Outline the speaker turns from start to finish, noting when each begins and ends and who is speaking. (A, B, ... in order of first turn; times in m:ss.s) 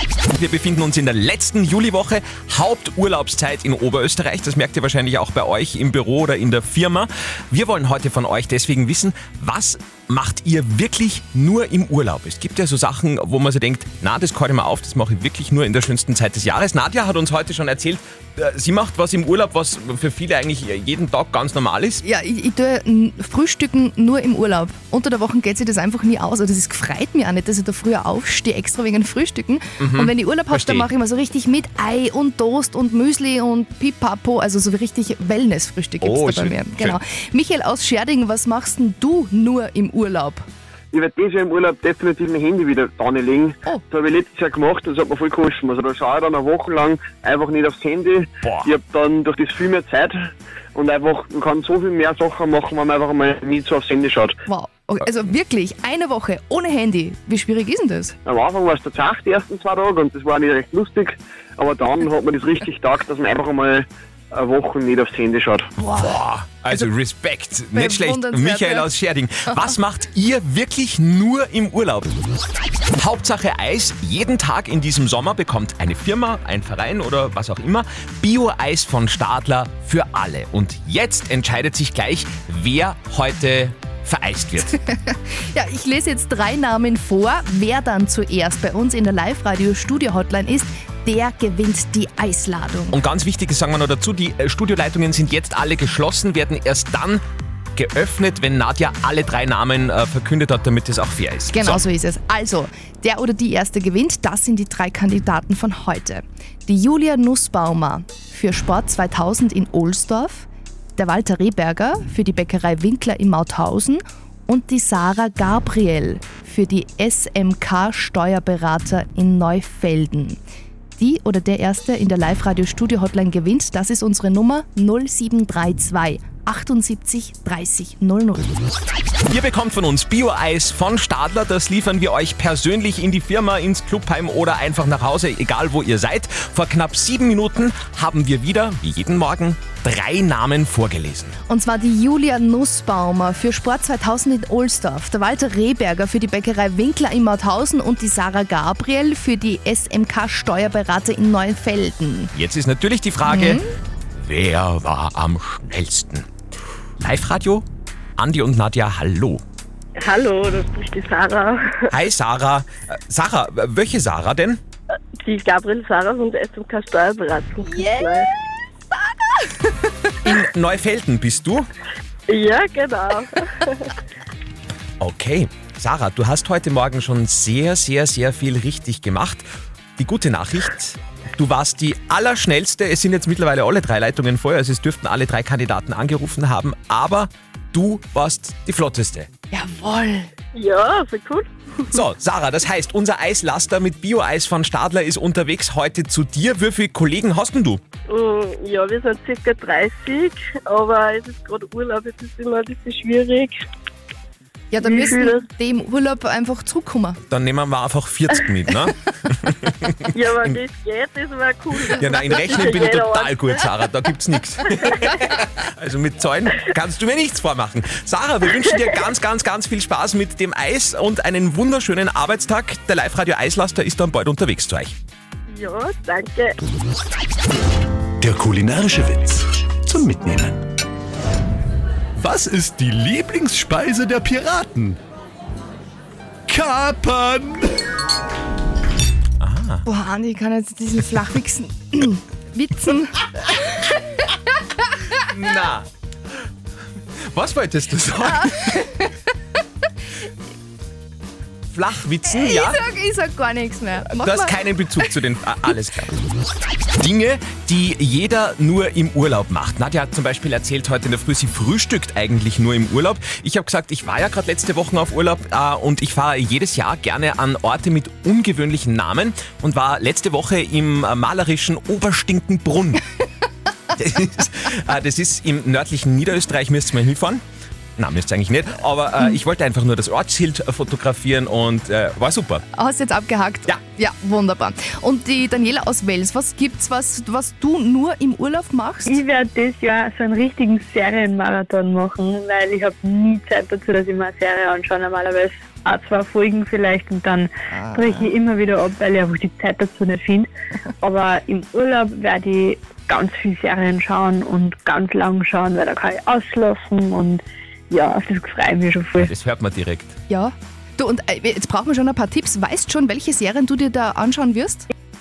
0:00.3-0:22.0 A
0:22.0-0:40.4 B
0:29.8-0:30.9 A
0:36.0-0:37.0 A
0:40.9-0:54.4 C
0:48.4-0:48.7 A
0:54.5-0:58.2 B
0:58.2-1:05.7 C
1:05.8-1:06.2 B
1:06.0-1:12.1 A
1:07.7-1:08.9 B
1:13.0-1:24.7 A
1:24.7-1:33.0 B
1:32.9-1:37.2 A
1:37.8-1:41.8 A
1:41.5-2:00.4 B
2:01.0-2:08.6 B
2:09.3-2:21.4 A
2:21.5-2:32.3 B
2:32.3-2:33.6 A
2:33.2-2:33.7 B
2:34.2-2:36.3 A
2:37.0-2:37.7 A
2:38.2-2:39.4 A
2:40.0-2:41.6 D
2:41.9-2:44.6 A
2:45.2-2:48.3 D
2:47.7-2:48.2 B
2:50.2-2:51.7 A
2:52.3-2:53.3 D
2:55.0-2:59.5 A
3:00.0-3:09.3 A
3:09.5-3:10.3 B
3:10.5-3:11.5 D
3:11.9-3:17.8 A
3:18.1-3:23.6 D
3:24.7-3:27.2 B
3:24.9-3:25.4 D
3:27.3-3:30.6 A
3:30.1-3:33.9 D
3:31.8-3:45.0 A
3:45.5-3:46.6 D
3:48.2-3:50.6 E
3:52.2-3:55.0 E
3:56.5-3:57.7 E
3:59.4-3:59.8 A
3:59.9-4:04.4 B
4:05.3-4:05.9 A
4:07.2-4:08.8 A
4:08.3-4:09.2 B
4:11.7-4:12.8 A
4:12.3-4:15.1 B
4:14.1-4:16.2 A
4:17.0-4:33.0 A
4:33.9-4:37.4 A
4:38.0-4:42.6 A
4:42.8-4:49.2 B
4:49.1-5:00.5 F
4:57.7-4:58.3 B
5:01.0-5:09.3 F
5:09.2-5:10.2 A
5:10.3-5:14.9 B